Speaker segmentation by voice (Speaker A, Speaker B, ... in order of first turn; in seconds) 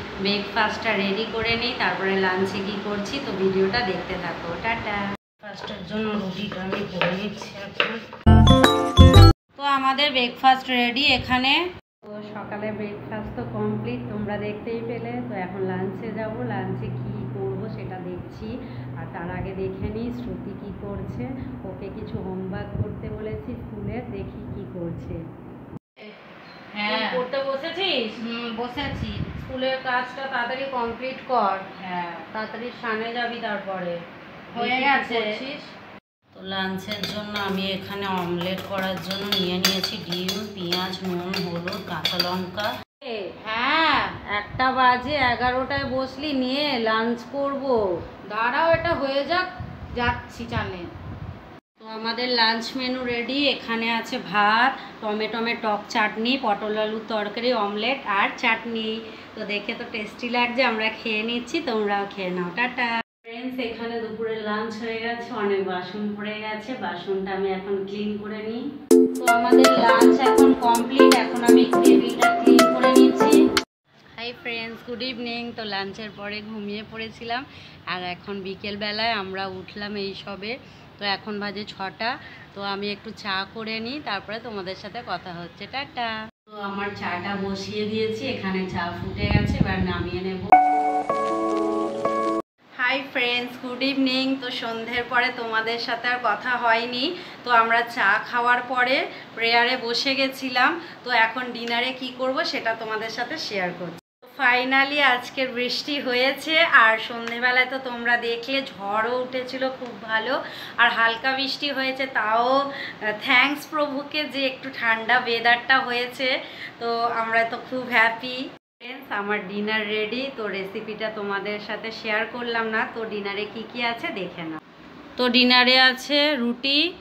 Speaker A: 0.3-8.0, 9.6-25.2, 26.7-34.0, 34.5-35.7, 36.3-43.3, 44.3-47.8, 51.8-68.6, 69.2-73.4, 74.2-90.5, 92.8-112.6, 113.2-124.6, 125.2-126.8
Speaker B: 26.9-27.3, 28.2-28.9, 34.6-35.4, 43.4-44.1, 48.3-50.9